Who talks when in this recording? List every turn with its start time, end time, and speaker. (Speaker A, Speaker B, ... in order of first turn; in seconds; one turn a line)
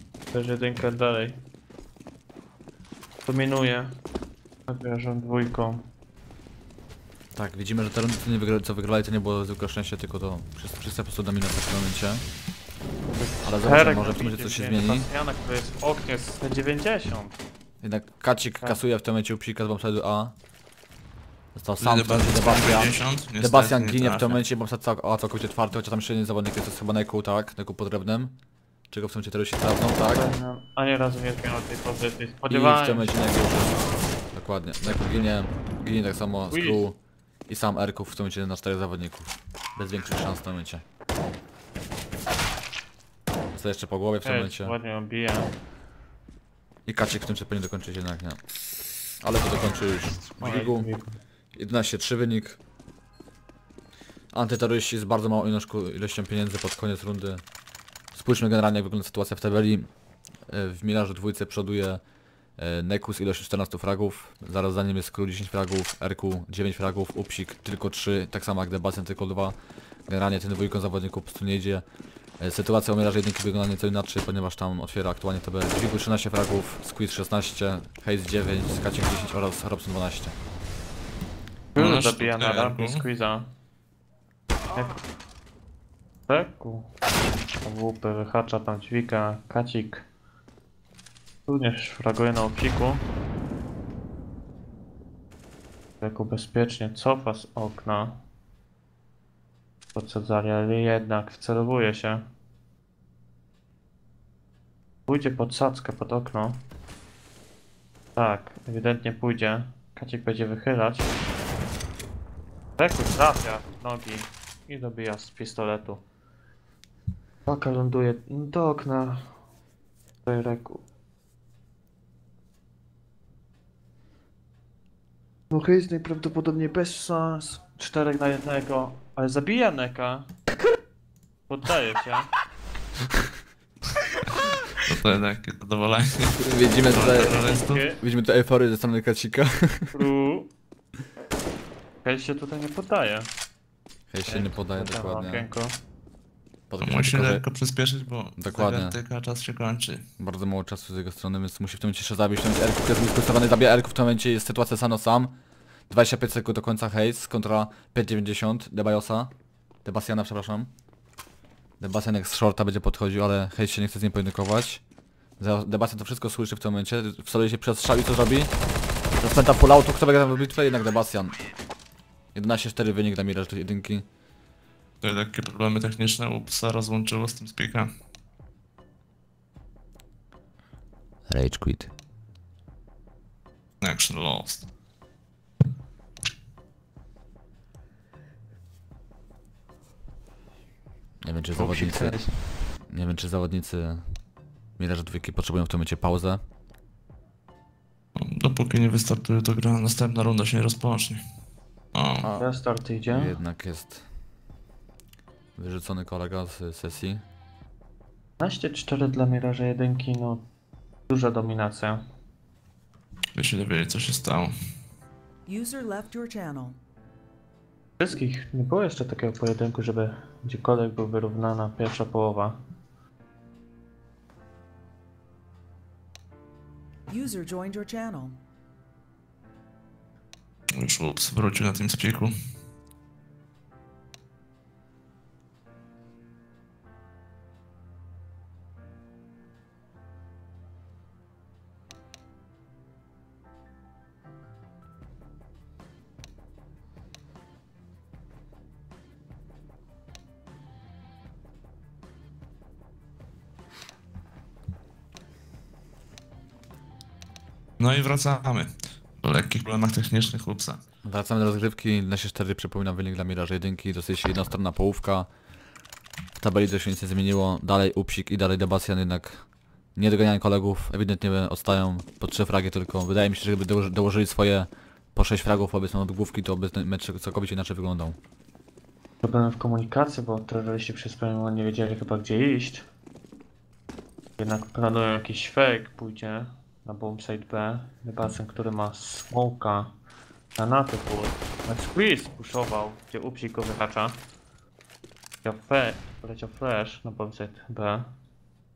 Speaker A: 0.3-1.4
Speaker A: 3.2-3.9
Speaker A: 4.7-5.8
Speaker B: 7.3-12.2
Speaker A: 13.2-17.4
Speaker B: 13.4-15.1
Speaker B: 17.8-20.3
Speaker B: 21.5-28.4
Speaker C: 21.8-24.4
Speaker B: 28.9-30.2
Speaker A: 30.1-33.1
Speaker B: 32.5-37.0
Speaker A: 34.9-35.2
Speaker A: 36.5-36.8
Speaker B: 37.5-40.8
Speaker B: 43.5-44.7
Speaker A: 44.2-45.5
Speaker B: 46.9-48.4
Speaker B: 49.2-50.9
Speaker A: 50.4-51.1
Speaker B: 51.5-52.6
Speaker B: 54.3-57.4
Speaker B: 58.1-59.9
Speaker B: 60.5-62.0
Speaker B: 62.6-69.5
Speaker B: 70.1-71.8
Speaker B: 72.4-80.3
Speaker A: 81.7-83.5
Speaker C: 81.8-83.0
Speaker A: 84.7-85.0
Speaker A: 86.3-86.9
Speaker A: 87.6-90.0
Speaker A: 91.5-93.0
Speaker A: 96.0-98.2
Speaker A: 99.9-102.2
Speaker A: 105.1-106.6
Speaker A: 108.2-111.1
Speaker A: 112.8-116.0
Speaker A: 117.5-119.4
Speaker A: 120.2-120.8
Speaker A: 125.5-130.3
Speaker A: 131.5-132.3
Speaker C: 134.3-137.8
Speaker B: 136.4-139.9
Speaker A: 137.0-138.0
Speaker A: 139.9-140.5
Speaker A: 142.0-143.3
Speaker B: 144.1-145.5
Speaker A: 144.2-145.7
Speaker B: 146.7-147.4
Speaker C: 146.8-150.1
Speaker B: 148.4-149.0
Speaker B: 150.2-155.3
Speaker B: 155.9-159.3
Speaker B: 159.8-160.7
Speaker B: 161.8-164.8
Speaker B: 165.4-168.5
Speaker B: 169.2-171.3
Speaker B: 172.3-174.0
Speaker C: 175.0-177.9
Speaker B: 181.3-181.9
Speaker C: 183.8-184.7
Speaker B: 191.2-192.2
Speaker C: 191.6-192.3
Speaker B: 192.9-194.0
Speaker B: 194.8-196.4
Speaker C: 198.2-201.2
Speaker C: 201.9-202.3
Speaker A: 202.4-203.3
Speaker B: 203.1-204.0
Speaker B: 205.6-207.2
Speaker A: 208.4-210.4
Speaker A: 211.1-212.0
Speaker C: 213.3-214.5
Speaker D: 215.5-216.8
Speaker A: 218.0-222.6
Speaker D: 227.1-228.4
Speaker C: 230.7-232.3
Speaker C: 257.8-260.8
Speaker B: 261.0-265.3
Speaker B: 266.4-269.4
Speaker B: 269.9-278.2
Speaker A: 279.2-282.8
Speaker A: 284.4-289.9
Speaker A: 290.6-294.2
Speaker A: 295.4-298.1